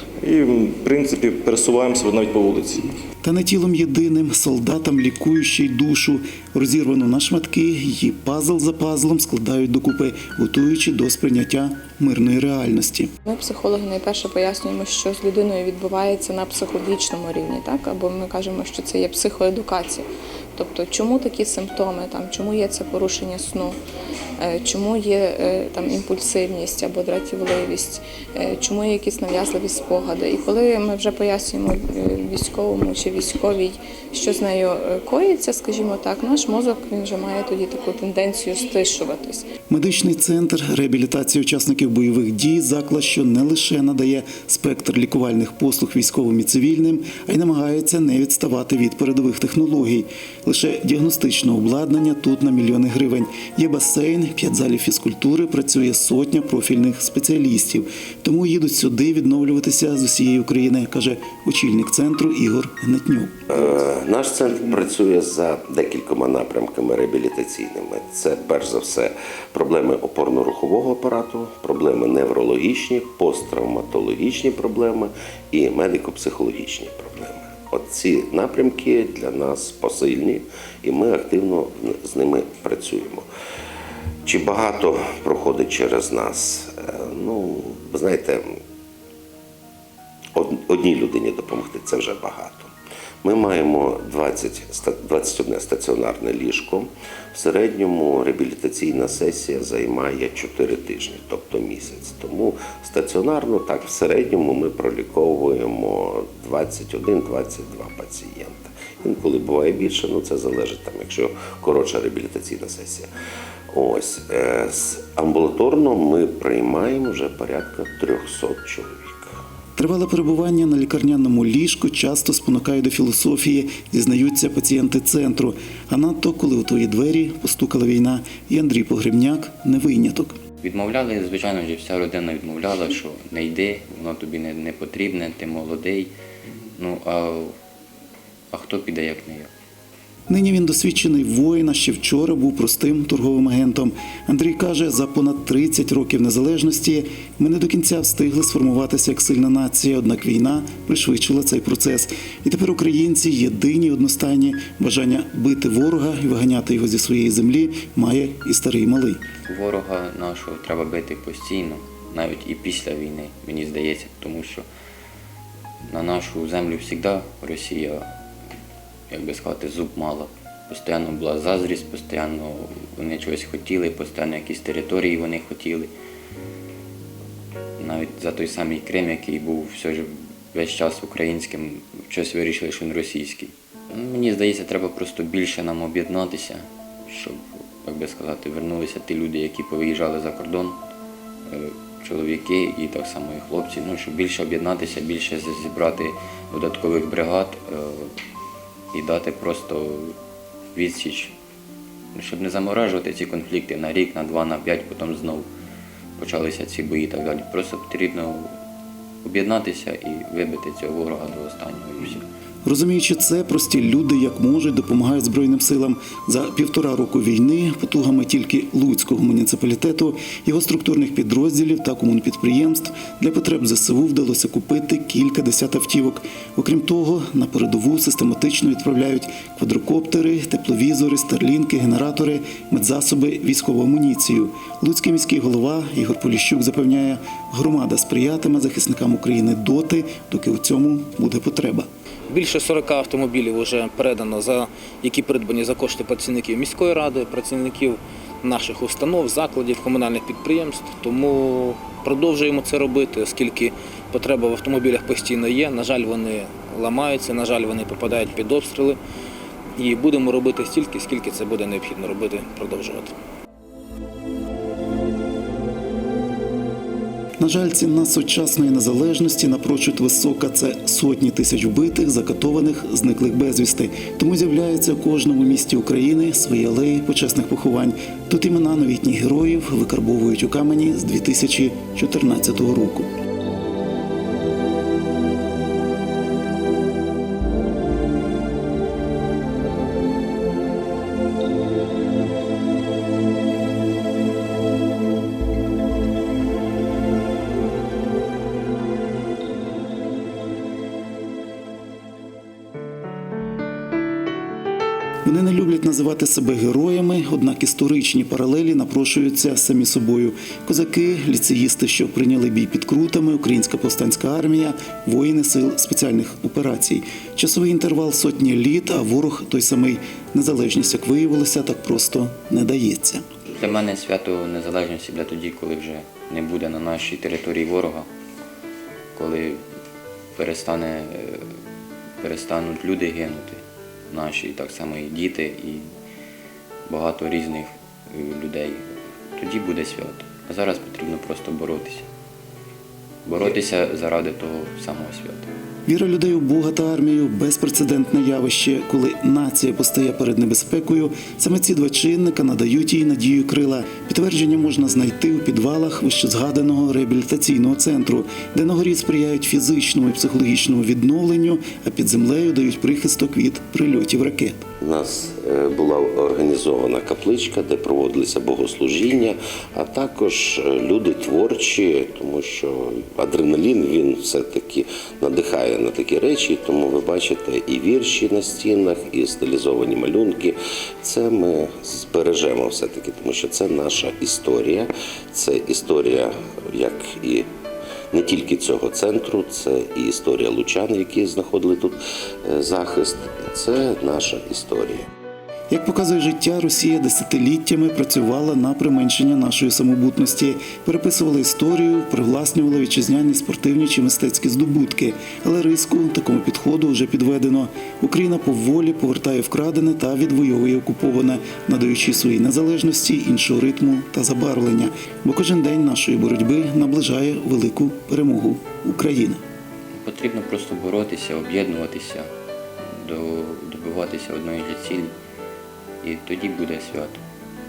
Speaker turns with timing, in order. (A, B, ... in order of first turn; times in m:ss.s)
0:00.2-0:02.8 A
0:03.2-0:13.1 B
0:13.2-0:23.7 C
0:24.4-0:39.4 C
0:39.7-1:03.5 B
1:03.5-1:23.2 D
1:24.2-1:28.4 D
1:30.3-1:32.7 D
1:33.2-1:53.1 D
1:53.7-1:59.3 D
1:59.8-2:10.3 B
2:10.6-2:16.1 E
2:16.8-2:17.5 E
2:18.5-2:19.5 E
2:20.3-2:39.2 B
2:39.4-2:44.6 E
2:45.9-2:48.1 E
2:49.1-2:55.9 E
2:57.8-3:10.8 E
3:11.5-3:18.1 E
3:18.9-3:20.1 E
3:20.7-3:21.3 E
3:22.1-3:25.5 E
3:26.2-3:28.5 E
3:29.2-3:32.2 E
3:32.6-4:01.9 B
4:02.3-4:19.0 F
4:19.8-4:23.1 F
4:27.4-4:43.1 B
5:05.2-5:23.2 B
5:23.5-5:28.1 E
5:29.1-5:29.6 E
5:30.3-5:31.5 E
5:32.2-5:35.9 E
5:36.9-5:38.8 E
5:39.4-5:42.0 E
5:43.2-5:45.5 E
5:45.9-6:04.6 B
6:04.8-6:27.5 D
6:28.1-6:35.1 D
6:35.7-6:59.4 B
6:59.9-7:02.3 E
7:02.9-7:05.1 E
7:06.0-7:07.2 E